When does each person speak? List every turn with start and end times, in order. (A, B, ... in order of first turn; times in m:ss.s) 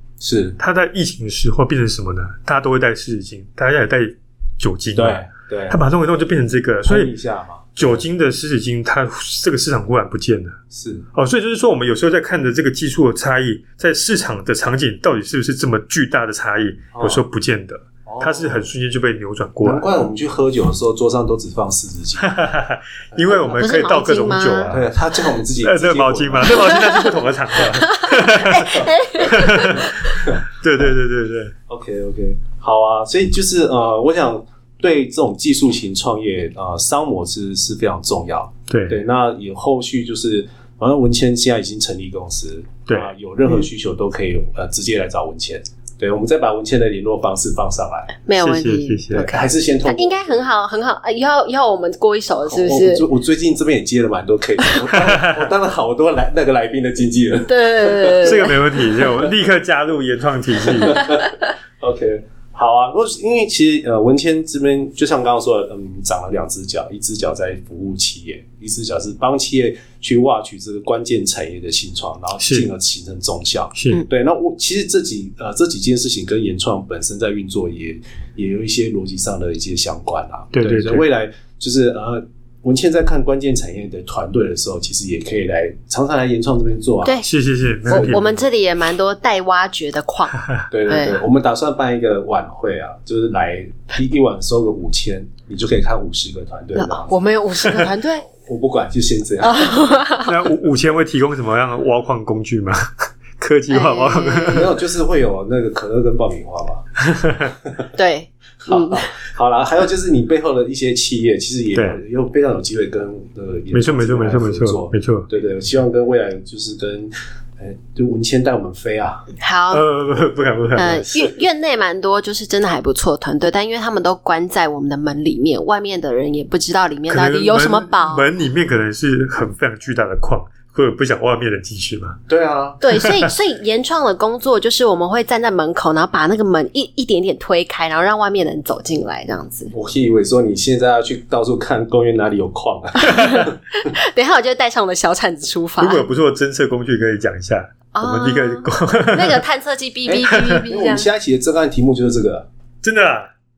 0:00.2-0:00.6 A
0:00.6-0:07.1 B
0:05.0-0:05.8 A
0:06.8-0:08.0 A
0:07.8-0:10.6 B
0:10.7-0:11.1 A
0:11.1-0:19.9 B
0:16.9-0:17.2 A
0:18.1-0:18.7 A
0:19.6-0:22.4 A
0:22.2-0:24.9 B
0:23.2-0:23.5 A
0:23.3-0:24.7 C
0:24.7-0:27.0 A
0:25.6-0:31.5 B
0:27.8-0:30.2 C
0:31.7-0:48.2 A
0:38.7-0:39.0 B
0:48.3-0:53.1 C
0:48.4-0:49.3 B
0:49.2-0:50.5 A
0:52.5-0:59.3 A
0:55.0-0:55.4 B
0:57.5-0:58.6 C
0:58.2-1:01.2 B
1:00.7-1:27.2 A
1:12.4-1:12.7 B
1:13.8-1:14.0 B
1:20.5-1:21.1 B
1:27.2-1:28.4 B
1:27.9-1:28.2 A
1:27.9-1:31.2 C
1:30.7-1:37.1 A
1:36.8-1:38.3 C
1:38.3-1:39.9 A
1:39.4-1:40.4 C
1:40.2-1:44.7 B
1:43.7-1:44.7 C
1:44.5-1:46.9 A
1:47.0-1:47.5 B
1:47.6-1:47.9 A
1:47.9-1:49.1 C
1:48.6-1:59.3 A
1:51.8-1:52.0 B
1:53.7-1:55.3 B
1:59.4-1:59.8 C
1:59.7-2:01.1 B
2:00.8-2:08.3 C
2:07.1-2:12.2 B
2:12.3-2:12.8 A
2:12.8-2:19.7 C
2:12.9-2:13.2 B
2:19.7-2:23.9 A
2:23.0-2:26.0 C
2:23.1-2:23.4 B
2:25.8-2:29.4 B
2:27.9-2:31.1 C
2:30.1-2:32.5 A
2:30.3-2:30.6 B
2:32.8-2:33.3 B